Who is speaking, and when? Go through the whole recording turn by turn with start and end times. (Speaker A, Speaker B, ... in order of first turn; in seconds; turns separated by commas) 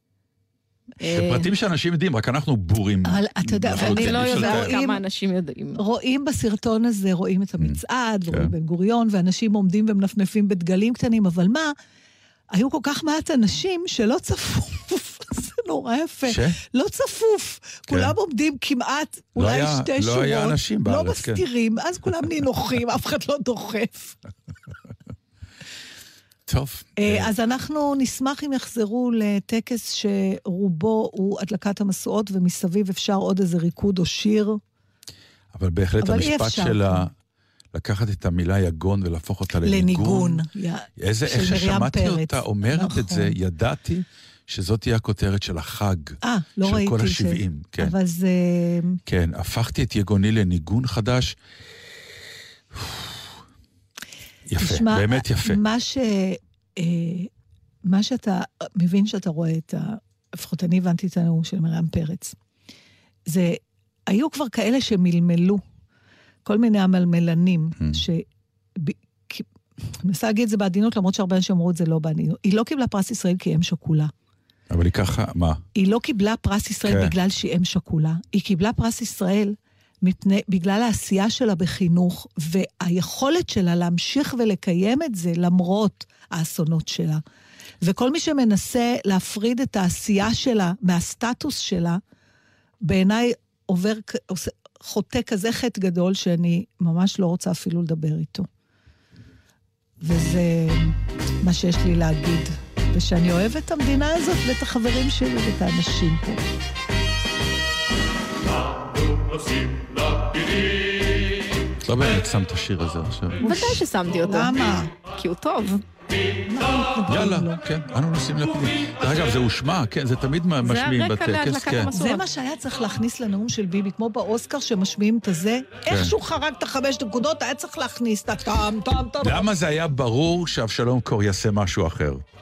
Speaker A: 1.0-1.5, Speaker B: 1.1-4.7, Speaker C: 3.1-5.0, Speaker A: 3.7-5.8, Speaker C: 5.8-11.7, Speaker C: 12.5-24.2, Speaker B: 16.3-16.6, Speaker B: 17.9-18.1, Speaker B: 19.4-21.4, Speaker B: 26.5-27.3, Speaker C: 27.0-34.6, Speaker B: 35.5-37.1, Speaker C: 36.0-37.1, Speaker B: 37.7-40.5, Speaker C: 39.6-43.3, Speaker B: 41.0-48.0, Speaker C: 46.2-49.0, Speaker B: 49.1-51.4, Speaker B: 52.7-53.2, Speaker B: 54.5-55.6, Speaker C: 54.6-57.3, Speaker C: 57.9-62.4, Speaker C: 63.3-65.6, Speaker C: 66.5-68.2, Speaker C: 68.8-69.5, Speaker C: 70.0-74.1, Speaker B: 74.7-75.6, Speaker C: 75.8-87.2, Speaker B: 76.8-77.1, Speaker C: 87.8-92.0, Speaker C: 92.8-98.5, Speaker C: 100.0-106.4, Speaker B: 111.8-113.6, Speaker A: 113.4-115.8, Speaker C: 113.4-114.9, Speaker C: 116.5-117.6, Speaker B: 117.1-121.9, Speaker A: 120.6-122.3, Speaker C: 121.9-129.5, Speaker B: 125.9-126.2, Speaker B: 129.2-132.2